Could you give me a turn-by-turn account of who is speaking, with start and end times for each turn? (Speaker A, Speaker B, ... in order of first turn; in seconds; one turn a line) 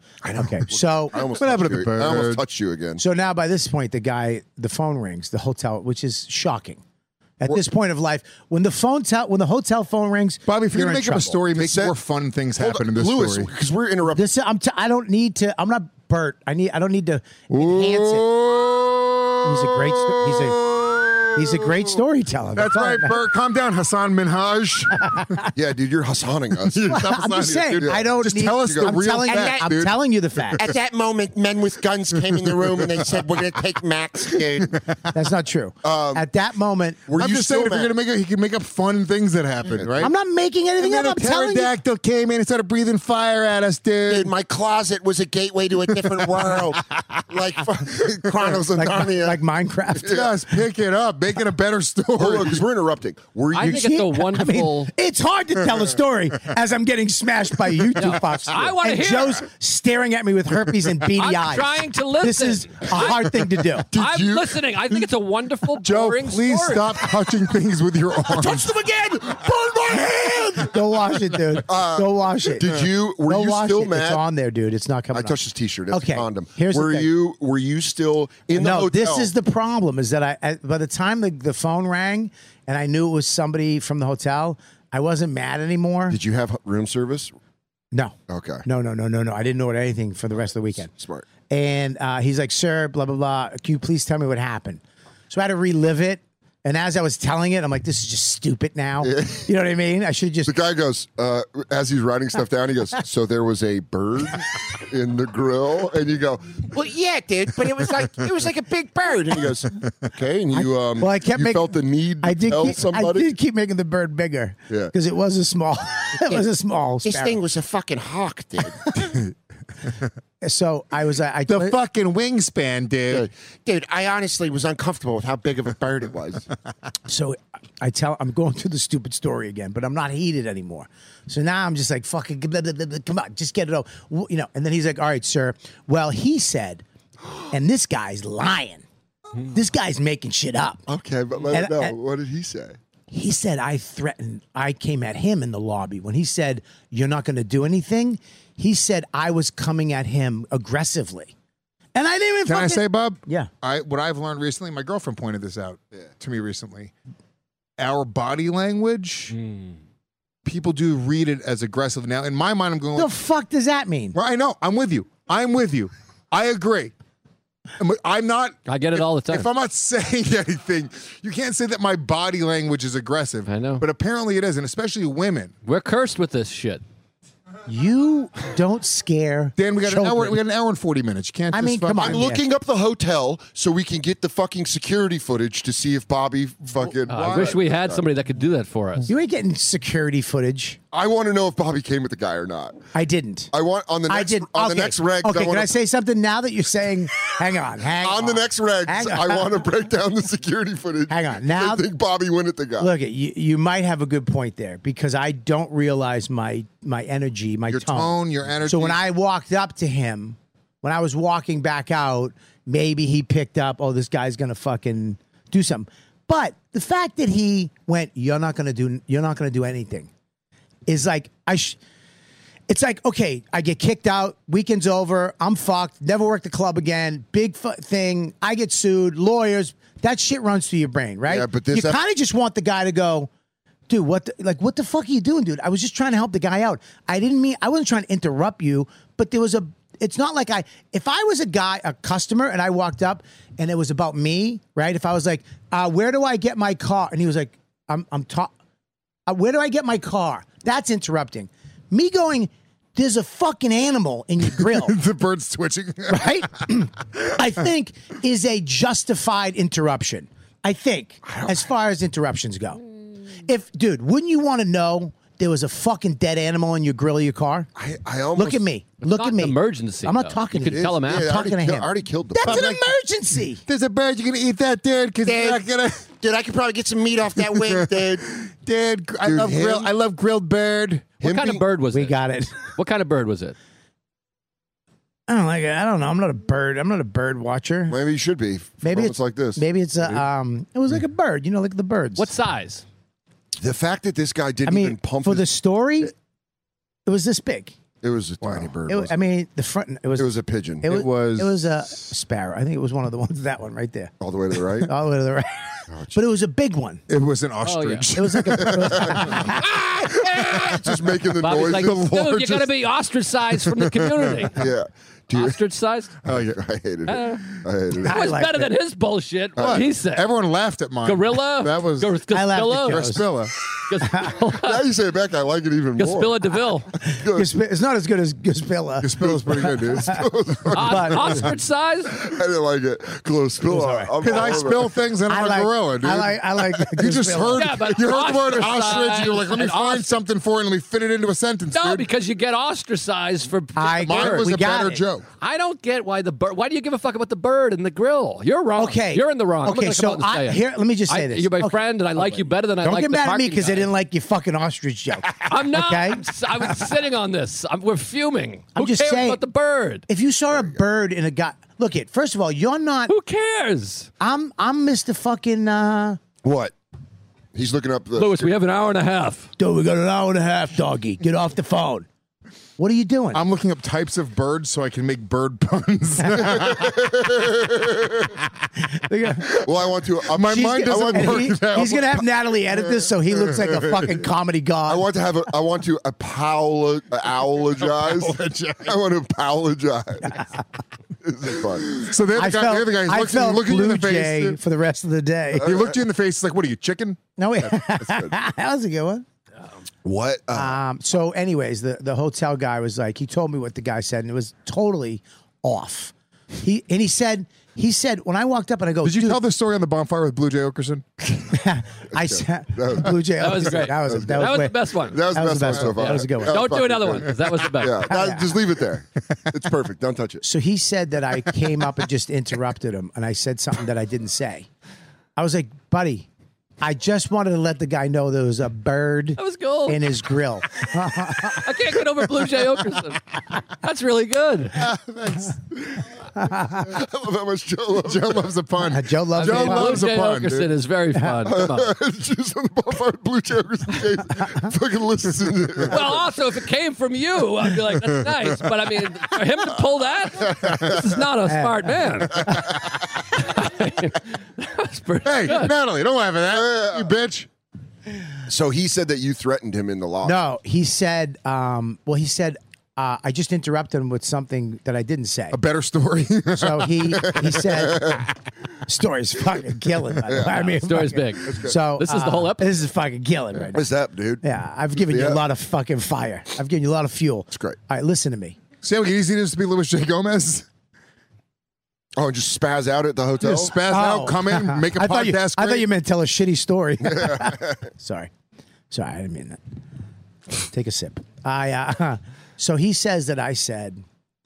Speaker A: 0.2-3.0
Speaker B: 0.3-1.1
Speaker C: 1.1-2.4
Speaker B: 3.0-6.8
Speaker B: 7.4-11.4
Speaker C: 10.4-13.5
Speaker A: 11.5-11.9
Speaker A: 12.6-14.3
Speaker B: 14.1-18.3
Speaker C: 17.5-21.9
Speaker B: 19.4-20.6
Speaker B: 21.3-23.2
Speaker C: 22.5-25.4
Speaker B: 25.0-25.4
Speaker A: 25.5-26.9
Speaker C: 26.6-30.8
Speaker B: 26.9-30.7
Speaker A: 27.8-28.9
Speaker D: 29.2-29.7
Speaker D: 30.6-34.7
Speaker C: 32.1-33.6
Speaker C: 34.3-35.0
Speaker B: 35.1-37.0
Speaker A: 35.8-36.2
Speaker A: 37.1-37.9
Speaker C: 37.2-40.1
Speaker A: 39.7-40.1
Speaker B: 40.0-41.7
Speaker C: 40.8-44.3
Speaker D: 44.1-49.4
Speaker C: 45.9-47.0
Speaker B: 48.8-50.2
Speaker A: 50.0-50.3
Speaker C: 50.1-52.6
Speaker A: 52.1-53.9
Speaker E: 53.5-54.9
Speaker B: 53.5-63.9
Speaker E: 58.0-59.4
Speaker E: 61.2-66.9
Speaker A: 63.9-64.6
Speaker C: 65.7-68.7
Speaker A: 68.2-70.8
Speaker B: 70.7-72.7
Speaker A: 71.7-74.2
Speaker B: 73.2-75.4
Speaker A: 75.1-79.3
Speaker B: 75.9-77.1
Speaker B: 78.5-86.2
Speaker A: 86.1-87.3
Speaker B: 87.9-90.9
Speaker A: 88.3-88.6
Speaker A: 90.7-91.3
Speaker B: 91.5-100.5
Speaker A: 99.0-99.5
Speaker A: 100.5-106.7
Speaker D: 106.7-109.5
Speaker A: 109.3-113.3
Speaker B: 110.5-117.4
Speaker D: 117.0-119.0
Speaker C: 119.0-119.2
Speaker B: 120.4-121.8
Speaker C: 121.5-123.3
Speaker D: 123.1-126.5
Speaker B: 127.1-136.8
Speaker B: 137.5-138.8
Speaker B: 139.4-140.8
Speaker A: 140.9-142.8
Speaker B: 141.5-141.9
Speaker B: 143.1-151.3
Speaker B: 151.9-153.5
Speaker C: 152.4-156.9
Speaker C: 157.8-159.3
Speaker E: 159.3-159.8
Speaker C: 160.4-163.1
Speaker B: 162.9-164.2
Speaker C: 164.1-166.9
Speaker C: 167.8-175.5
Speaker E: 168.7-169.5
Speaker E: 173.5-173.8
Speaker E: 175.6-176.8
Speaker B: 177.7-180.4
Speaker C: 179.6-182.2
Speaker B: 181.5-182.4
Speaker A: 182.0-188.0
Speaker C: 186.7-187.6
Speaker E: 187.1-189.1
Speaker B: 189.1-190.8
Speaker A: 190.9-192.8
Speaker B: 192.9-193.5
Speaker A: 193.5-195.7
Speaker B: 194.1-199.6
Speaker A: 198.0-202.9
Speaker B: 201.1-201.9
Speaker B: 202.8-220.1
Speaker C: 207.7-209.0
Speaker B: 220.9-221.8
Speaker B: 222.7-233.3
Speaker A: 231.3-232.0
Speaker B: 233.9-248.5
Speaker B: 249.3-254.9
Speaker C: 254.4-256.7
Speaker B: 256.1-262.8
Speaker A: 261.2-261.7
Speaker B: 263.4-267.7
Speaker A: 267.7-268.6
Speaker B: 268.3-273.6
Speaker E: 269.0-271.4
Speaker A: 270.7-272.7
Speaker C: 272.4-272.9
Speaker C: 273.6-276.1
Speaker D: 275.2-275.6
Speaker D: 276.2-278.2
Speaker C: 277.4-281.1
Speaker A: 279.2-279.9
Speaker A: 281.2-281.6
Speaker E: 281.2-283.6
Speaker B: 281.9-282.6
Speaker B: 285.3-287.9
Speaker A: 287.9-289.6
Speaker B: 288.8-292.3
Speaker E: 292.2-292.8
Speaker A: 293.6-295.5
Speaker B: 294.6-296.1
Speaker B: 297.1-297.7
Speaker A: 298.0-299.2
Speaker C: 298.4-298.7
Speaker B: 298.9-300.3
Speaker A: 300.2-300.9
Speaker B: 300.8-304.1
Speaker C: 300.8-301.9
Speaker A: 304.2-304.9
Speaker B: 304.8-307.0
Speaker A: 305.9-306.2
Speaker C: 307.1-311.1
Speaker E: 307.6-308.1
Speaker B: 308.1-309.6
Speaker A: 308.9-312.3
Speaker E: 311.4-314.6
Speaker C: 311.7-312.7
Speaker C: 313.5-314.5
Speaker A: 314.5-315.6
Speaker E: 315.3-316.2
Speaker C: 316.2-316.6
Speaker A: 316.2-318.2
Speaker E: 317.1-317.4
Speaker E: 318.0-320.3
Speaker B: 318.0-318.7
Speaker A: 319.6-319.9
Speaker C: 319.6-322.1
Speaker E: 321.0-323.1
Speaker B: 322.3-323.3
Speaker C: 322.8-323.5
Speaker E: 323.8-324.9
Speaker A: 324.5-327.5
Speaker E: 326.0-326.9
Speaker B: 327.3-330.2
Speaker C: 329.0-330.1
Speaker A: 329.2-331.5
Speaker E: 330.7-332.2
Speaker B: 330.8-331.4
Speaker C: 331.2-331.5
Speaker A: 332.1-334.9
Speaker B: 333.6-334.6
Speaker C: 334.2-342.1
Speaker B: 335.3-337.7
Speaker E: 337.5-340.1
Speaker E: 341.7-344.5
Speaker B: 343.8-345.0
Speaker C: 344.0-345.2
Speaker E: 345.4-353.9
Speaker B: 348.8-356.9
Speaker E: 355.4-360.1
Speaker B: 358.7-359.4
Speaker B: 360.1-363.1
Speaker A: 360.5-360.8
Speaker E: 363.1-364.1
Speaker B: 364.2-366.2
Speaker A: 366.4-366.7
Speaker A: 367.5-368.5
Speaker E: 368.1-369.5
Speaker B: 369.6-372.1
Speaker B: 372.8-373.4
Speaker C: 373.3-377.5
Speaker A: 376.4-378.3
Speaker B: 378.9-379.6
Speaker A: 379.6-382.1
Speaker C: 380.2-382.2
Speaker B: 380.5-385.1
Speaker A: 384.9-390.5
Speaker C: 387.8-388.9
Speaker B: 390.3-390.6
Speaker A: 391.2-392.0
Speaker C: 391.8-394.6
Speaker B: 392.3-395.7
Speaker C: 395.5-397.7
Speaker A: 395.6-396.0
Speaker B: 397.4-399.2
Speaker A: 398.0-398.3
Speaker A: 400.0-400.8
Speaker B: 400.5-409.4
Speaker C: 409.0-411.3
Speaker B: 411.4-414.8
Speaker A: 412.1-420.4
Speaker E: 413.4-418.2
Speaker B: 415.3-416.8
Speaker B: 418.1-418.5
Speaker B: 420.4-424.7
Speaker B: 425.4-426.3
Speaker B: 426.8-431.6
Speaker E: 429.4-430.0
Speaker E: 431.4-434.9
Speaker C: 434.7-436.0
Speaker B: 436.4-436.8
Speaker A: 436.8-438.5
Speaker C: 438.0-440.7
Speaker B: 438.9-440.1
Speaker E: 439.4-441.9
Speaker A: 441.4-446.2
Speaker E: 445.9-455.7
Speaker C: 448.0-448.7
Speaker A: 450.4-451.0
Speaker B: 451.4-452.7
Speaker A: 452.5-452.9
Speaker C: 455.2-457.5
Speaker A: 456.5-457.1
Speaker A: 458.5-460.4
Speaker B: 460.2-465.6
Speaker C: 465.5-467.2
Speaker B: 466.5-468.2
Speaker A: 467.1-468.2
Speaker B: 468.9-473.8
Speaker A: 470.2-470.8
Speaker E: 470.8-472.8
Speaker A: 471.4-471.8
Speaker A: 473.7-474.4
Speaker B: 474.4-478.6
Speaker A: 475.0-475.4
Speaker A: 477.5-477.8
Speaker C: 478.8-480.7
Speaker A: 482.1-483.7
Speaker C: 483.4-485.9
Speaker B: 483.8-488.3
Speaker A: 487.0-487.8
Speaker B: 488.9-489.6
Speaker B: 490.6-494.0